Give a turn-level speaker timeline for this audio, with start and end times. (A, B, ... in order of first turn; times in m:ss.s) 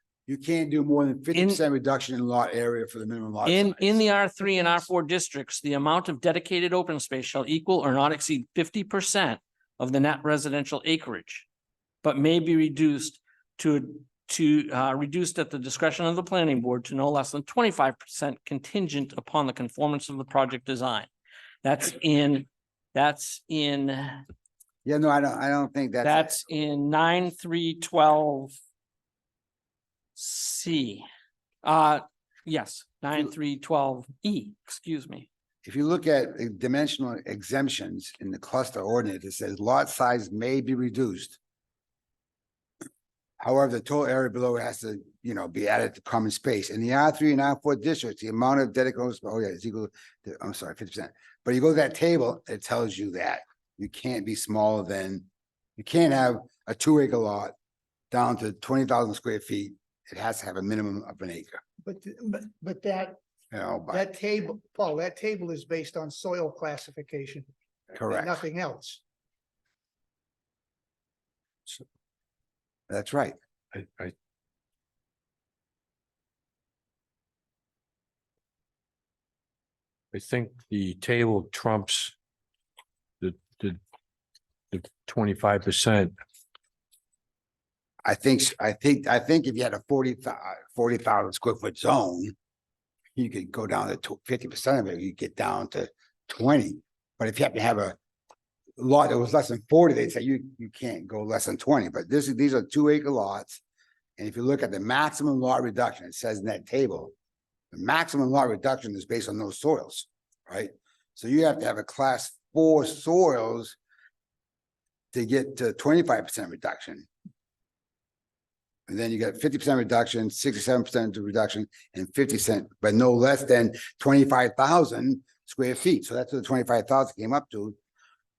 0:00.3-0:04.0 A
0:01.3-0:01.6 B
0:03.4-0:11.5 B
0:12.0-0:21.1 B
0:21.6-0:24.2 B
0:24.8-0:26.4 A
0:26.0-0:28.5 B
0:30.2-0:31.0 B
0:31.6-0:35.3 B
0:35.6-0:41.4 A
0:43.4-0:55.2 A
0:55.8-0:57.5 A
0:58.1-1:01.6 A
1:01.8-1:03.2 C
1:03.5-1:04.0 A
1:03.9-1:07.5 C
1:07.9-1:08.4 A
1:08.0-1:09.0 C
1:12.9-1:13.4 A
1:13.7-1:14.1 D
1:20.1-1:22.1 D
1:23.2-1:23.8 D
1:24.7-1:26.1 D
1:28.0-1:32.3 A
1:33.2-1:38.0 A
1:38.8-1:43.6 A
1:44.2-1:47.1 A
1:47.7-1:53.8 A
1:55.1-1:57.1 A
1:58.9-2:07.8 A